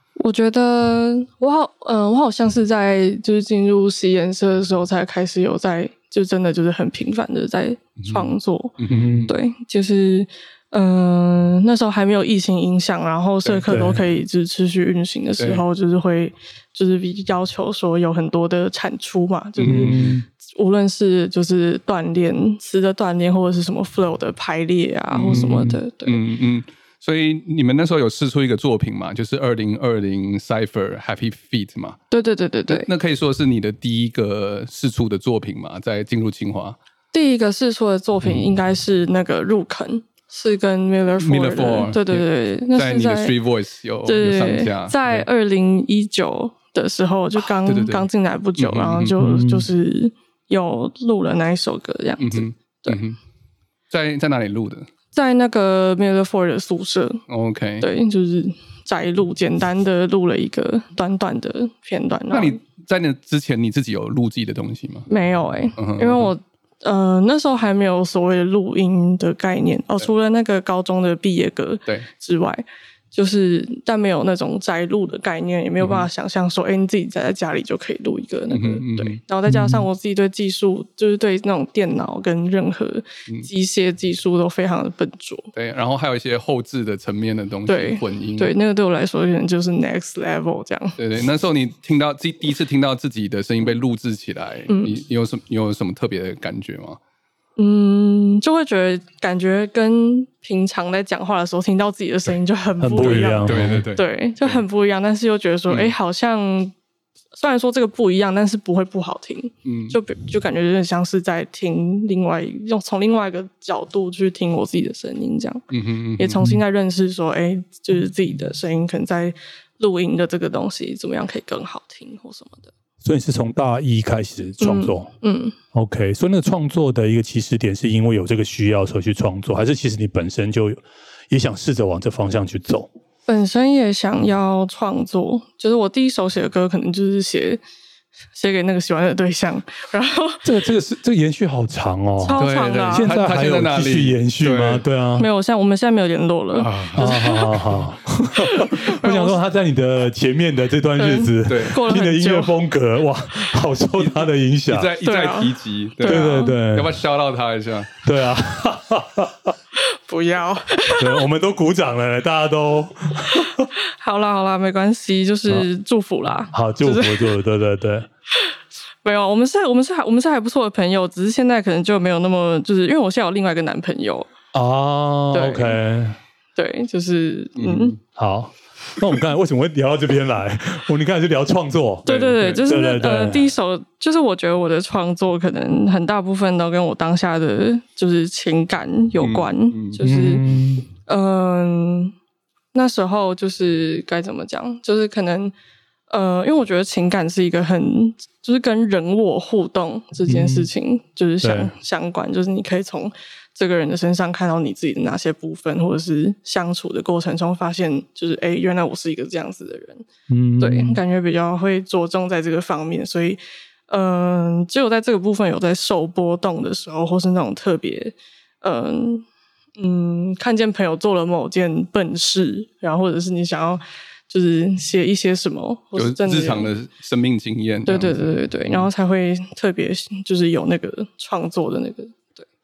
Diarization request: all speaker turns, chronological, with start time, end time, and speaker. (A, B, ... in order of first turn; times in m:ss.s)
0:00.2-0:26.2 A
0:08.0-0:09.3 B
0:08.9-0:09.3 C
0:13.7-0:14.0 C
0:15.4-0:15.6 B
0:19.6-0:20.2 B
0:19.6-0:20.2 C
0:25.1-0:32.0 B
0:25.3-0:25.8 C
0:32.1-0:32.9 A
0:32.7-0:36.8 B
0:37.1-0:43.3 A
0:41.2-0:45.2 B
0:44.0-0:53.0 A
0:47.6-0:49.2 B
0:49.2-0:49.7 C
0:52.2-0:53.2 B
0:53.9-0:54.9 B
0:55.1-0:57.2 A
0:57.3-0:57.9 B
0:57.8-1:02.6 A
1:02.3-1:05.1 B
1:05.1-1:25.5 A
1:05.8-1:06.3 B
1:15.8-1:16.1 B
1:18.5-1:19.2 B
1:19.5-1:19.9 C
1:25.5-1:28.5 B
1:27.7-1:31.0 A
1:31.0-1:37.0 B
1:34.7-1:35.0 A
1:37.6-1:46.7 A
1:42.8-1:43.8 C
1:43.0-1:44.6 B
1:45.7-1:45.9 B
1:47.3-1:55.6 A
1:49.6-1:50.0 B
1:55.7-1:56.4 B
1:56.2-2:02.7 A
2:03.0-2:05.1 C
2:04.6-2:05.6 A
2:05.7-2:10.8 C
2:11.3-2:12.9 C
2:13.3-2:17.6 A
2:18.3-2:20.4 A
2:20.4-2:25.3 C
2:22.2-2:23.2 A
2:22.4-2:24.8 B
2:25.2-2:27.6 A
2:26.5-2:27.1 B
2:26.9-2:34.9 C
2:28.4-2:29.4 A
2:31.0-2:32.5 A
2:31.5-2:31.8 B
2:34.0-2:38.0 B
2:35.0-2:36.6 A
2:36.0-2:37.0 C
2:38.0-2:39.5 C
2:39.7-2:41.2 A
2:41.0-2:43.7 C
2:43.2-2:47.4 A
2:46.5-2:48.1 C
2:49.0-2:54.3 A
2:54.5-2:56.2 C
2:55.3-2:55.8 A
2:56.6-2:58.0 A
2:57.6-2:58.0 B
2:58.2-3:02.1 C
3:02.0-3:02.6 B
3:02.0-3:10.4 A
3:02.6-3:03.5 C
3:09.2-3:10.0 B
3:10.0-3:10.9 C
3:11.0-3:12.1 A
3:12.7-3:15.5 A
3:16.1-3:30.0 A
3:20.3-3:20.7 C
3:21.4-3:21.7 C
3:30.3-3:31.0 C
3:30.6-3:39.2 A
3:39.8-3:46.7 A
3:46.0-3:48.9 B
3:47.8-3:52.4 A